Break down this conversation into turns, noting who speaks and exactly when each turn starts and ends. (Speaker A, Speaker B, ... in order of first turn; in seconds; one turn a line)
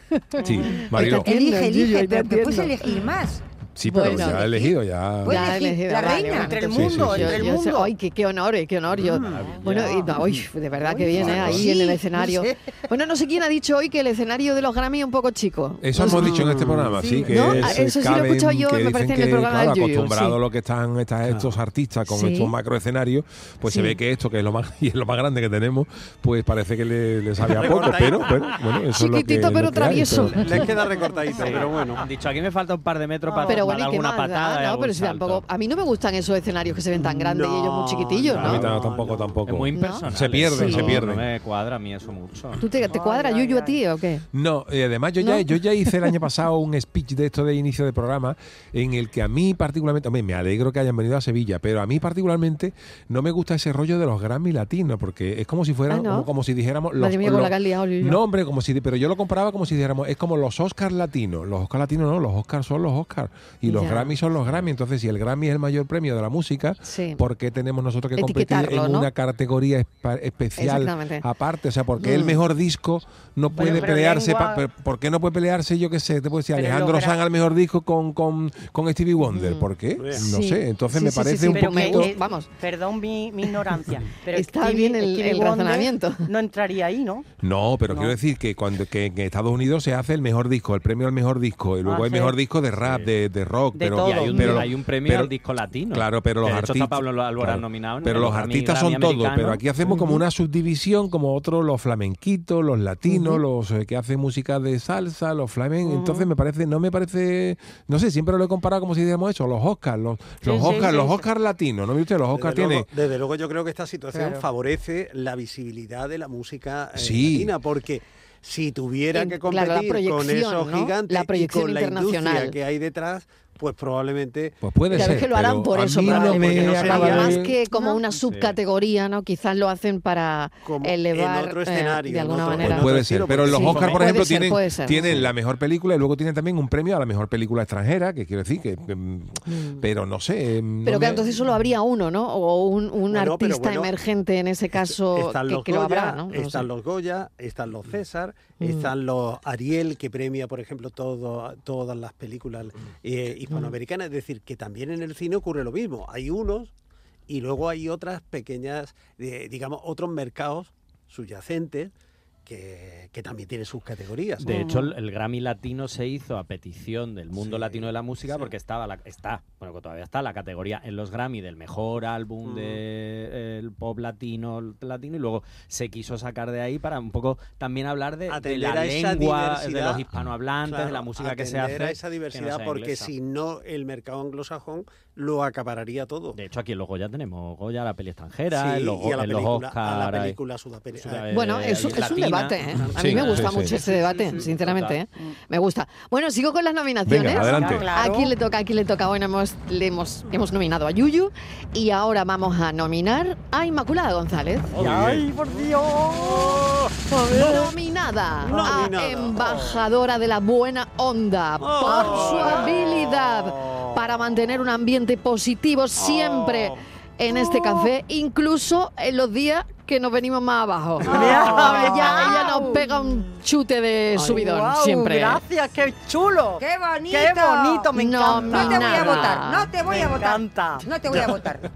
Speaker A: 0.2-2.9
Speaker B: 0.4-1.3
Speaker C: 1.0-4.7
Speaker B: 3.8-5.4
Speaker A: 3.9-4.5
Speaker C: 5.2-6.7
Speaker A: 5.3-20.4
Speaker D: 6.3-7.9
Speaker B: 6.7-7.5
Speaker E: 9.0-10.2
Speaker F: 9.1-10.1
Speaker C: 11.1-12.7
Speaker E: 11.1-11.7
Speaker B: 11.2-11.6
Speaker B: 15.8-30.6
Speaker E: 16.5-16.8
Speaker A: 22.1-22.5
Speaker A: 23.6-24.0
Speaker E: 27.4-28.5
Speaker A: 28.9-30.7
Speaker E: 30.3-32.0
Speaker F: 31.4-35.4
Speaker E: 33.3-33.6
Speaker A: 33.5-38.6
Speaker E: 37.0-39.4
Speaker B: 38.4-41.3
Speaker F: 39.5-42.6
Speaker A: 39.8-41.0
Speaker A: 42.6-44.2
Speaker D: 42.9-43.8
Speaker B: 44.3-82.1
Speaker A: 45.2-46.1
Speaker A: 55.9-56.3
Speaker A: 57.0-58.2
Speaker A: 63.7-64.2
Speaker A: 66.8-67.2
Speaker A: 68.2-69.1
Speaker A: 70.6-71.2
Speaker A: 72.0-72.4
Speaker D: 73.6-74.6
Speaker D: 76.5-77.2
Speaker A: 79.2-82.5
Speaker D: 81.5-87.3
Speaker A: 84.3-86.2
Speaker B: 87.4-95.3
Speaker D: 87.9-88.2
Speaker D: 91.8-92.3
Speaker F: 92.8-93.1
Speaker D: 93.8-94.6
Speaker F: 94.0-99.6
Speaker B: 95.9-112.9
Speaker A: 99.9-100.2
Speaker A: 103.1-103.4
Speaker D: 105.8-106.3
Speaker D: 110.5-111.3
Speaker E: 112.3-125.2
Speaker B: 117.0-117.5
Speaker A: 119.1-122.6
Speaker B: 124.6-127.5
Speaker A: 124.9-135.2
Speaker E: 126.0-127.4
Speaker C: 127.7-128.0
Speaker F: 128.1-128.6
Speaker E: 130.7-134.3
Speaker B: 132.6-141.2
Speaker A: 139.5-139.8
Speaker A: 140.8-146.7
Speaker E: 143.1-143.9
Speaker E: 145.0-156.7
Speaker A: 148.6-148.9
Speaker E: 157.3-161.9
Speaker E: 162.5-164.8
Speaker F: 164.4-183.1
Speaker D: 164.5-164.8
Speaker E: 167.4-168.5
Speaker E: 172.4-172.8
Speaker E: 178.3-180.0
Speaker E: 180.7-186.4
Speaker F: 186.3-190.4
Speaker E: 188.5-191.2
Speaker F: 190.9-195.0
Speaker A: 191.3-204.7
Speaker B: 192.9-193.7
Speaker E: 193.9-194.5
Speaker B: 197.1-197.8
Speaker D: 197.3-198.3
Speaker E: 204.8-205.3
Speaker D: 205.0-206.7
Speaker E: 206.0-207.5
Speaker A: 207.3-225.4
Speaker E: 208.4-209.8
Speaker E: 211.6-214.0
Speaker D: 212.1-212.5
Speaker E: 216.0-216.8
Speaker E: 221.1-222.2
Speaker D: 221.1-222.8
Speaker C: 224.2-224.5
Speaker D: 224.4-230.9
Speaker C: 226.6-231.6
Speaker A: 228.0-229.7